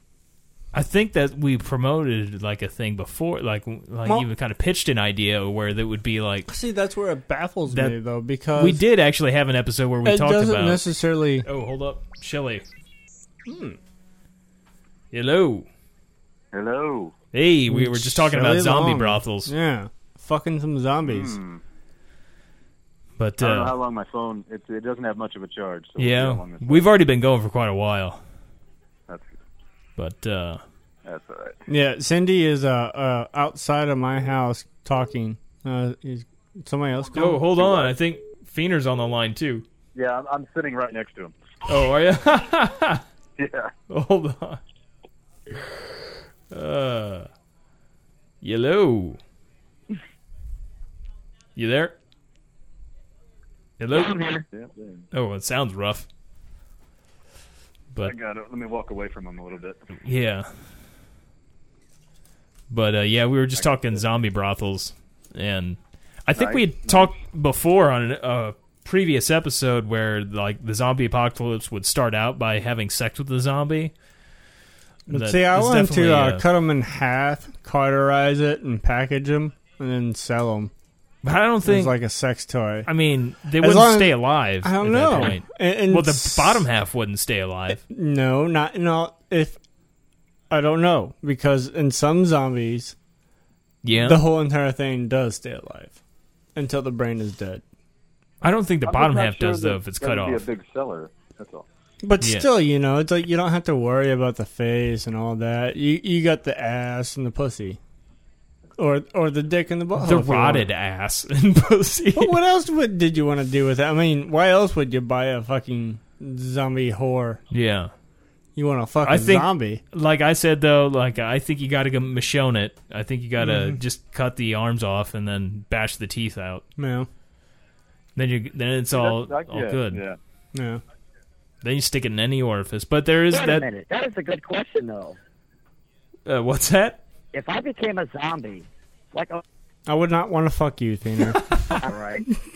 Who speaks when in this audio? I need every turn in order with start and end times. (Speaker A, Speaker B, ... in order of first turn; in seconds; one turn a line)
Speaker A: 0.7-6.5
Speaker B: 6.5-8.8
Speaker A: 7.7-8.0
Speaker A: 8.5-10.9
Speaker B: 10.0-11.5
Speaker A: 11.4-12.6
Speaker B: 13.4-13.8
Speaker A: 15.1-15.7
Speaker C: 16.5-17.1
Speaker A: 17.3-19.5
Speaker B: 17.7-21.4
Speaker C: 21.0-21.6
Speaker A: 23.2-23.8
Speaker C: 23.4-26.9
Speaker A: 26.0-28.2
Speaker C: 29.1-29.4
Speaker A: 30.0-30.6
Speaker C: 31.0-31.6
Speaker B: 31.7-37.5
Speaker A: 37.1-39.6
Speaker C: 37.6-37.9
Speaker C: 39.9-41.3
Speaker A: 41.7-43.0
Speaker C: 43.4-43.7
Speaker A: 43.9-44.6
Speaker A: 46.5-47.3
Speaker A: 48.4-49.2
Speaker A: 51.5-52.0
Speaker A: 53.8-54.2
Speaker D: 53.9-54.4
Speaker C: 54.5-55.0
Speaker A: 55.1-56.1
Speaker C: 58.0-59.9
Speaker A: 60.0-60.5
Speaker A: 62.7-73.9
Speaker C: 66.3-67.1
Speaker B: 75.1-80.7
Speaker A: 75.1-76.4
Speaker A: 81.2-82.0
Speaker B: 81.6-82.9
Speaker A: 82.8-87.8
Speaker B: 83.6-86.7
Speaker B: 87.8-89.6
Speaker B: 90.5-93.0
Speaker A: 93.8-94.2
Speaker B: 94.0-96.0
Speaker B: 96.5-97.6
Speaker A: 98.4-100.5
Speaker C: 98.8-101.7
Speaker B: 102.0-107.8
Speaker A: 102.2-102.5
Speaker B: 108.8-110.7
Speaker A: 110.0-112.3
Speaker B: 112.1-117.4
Speaker A: 117.5-117.9
Speaker B: 118.5-119.8
Speaker A: 119.0-126.6
Speaker B: 123.4-123.8
Speaker B: 126.8-127.1
Speaker A: 128.2-130.0
Speaker C: 128.9-130.2
Speaker B: 130.5-130.8
Speaker A: 131.6-133.7
Speaker D: 133.3-135.2
Speaker A: 136.2-137.0
Speaker D: 137.3-139.4
Speaker B: 139.9-141.6
Speaker D: 141.7-142.2